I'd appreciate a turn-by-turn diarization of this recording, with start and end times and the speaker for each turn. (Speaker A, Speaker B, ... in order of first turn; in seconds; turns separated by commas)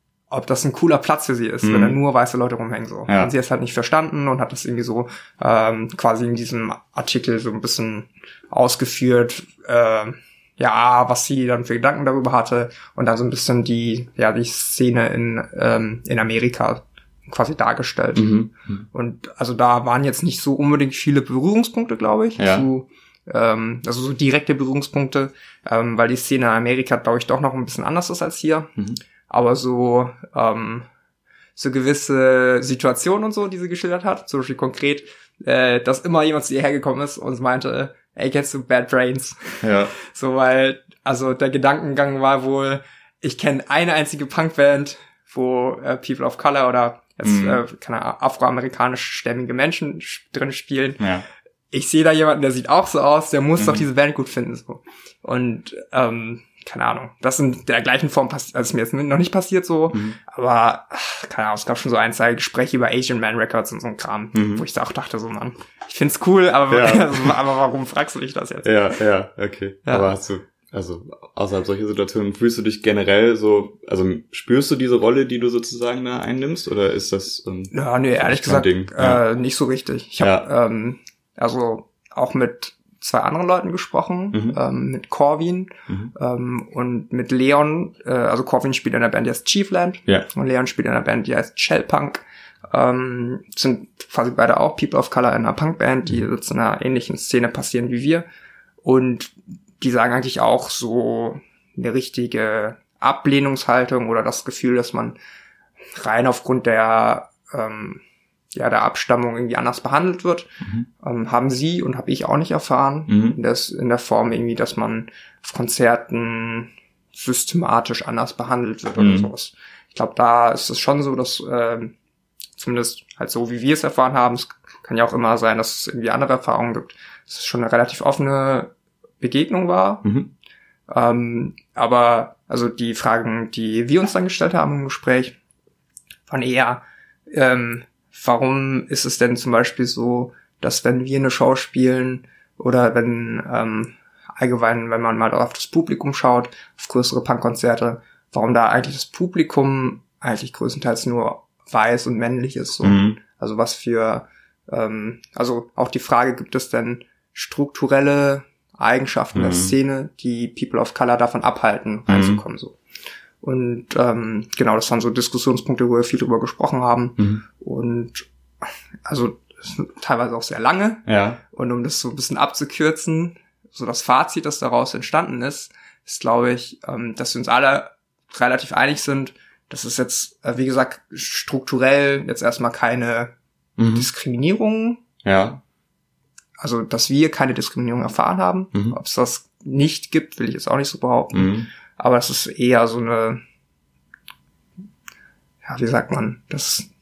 Speaker A: 0.3-18.4, Speaker B: 1.6-2.0, Speaker B: 18.1-18.8, Speaker A: 18.9-28.7, Speaker B: 22.4-22.7, Speaker A: 29.3-30.9, Speaker A: 31.6-51.0, Speaker B: 39.6-39.9, Speaker B: 47.2-47.6, Speaker B: 51.0-51.2, Speaker A: 51.7-68.7, Speaker B: 53.6-53.9, Speaker B: 59.9-60.2, Speaker B: 64.3-64.6, Speaker B: 66.7-67.3, Speaker B: 68.6-79.2, Speaker A: 69.9-70.1, Speaker A: 77.7-98.2, Speaker B: 80.2-80.5, Speaker B: 84.3-84.6, Speaker A: 98.8-105.2, Speaker A: 106.0-108.0, Speaker A: 108.5-122.0, Speaker B: 113.1-113.4, Speaker B: 119.0-119.3, Speaker A: 122.6-130.1, Speaker B: 130.0-130.3, Speaker A: 130.9-135.4, Speaker A: 136.3-162.8, Speaker B: 152.8-153.2, Speaker B: 159.3-159.7, Speaker B: 162.1-162.4, Speaker A: 163.4-168.3, Speaker A: 169.1-183.3, Speaker B: 171.1-171.4, Speaker B: 183.8-184.1, Speaker A: 183.9-185.0, Speaker B: 185.2-185.6, Speaker A: 186.6-193.4, Speaker B: 191.3-191.7, Speaker A: 195.6-196.9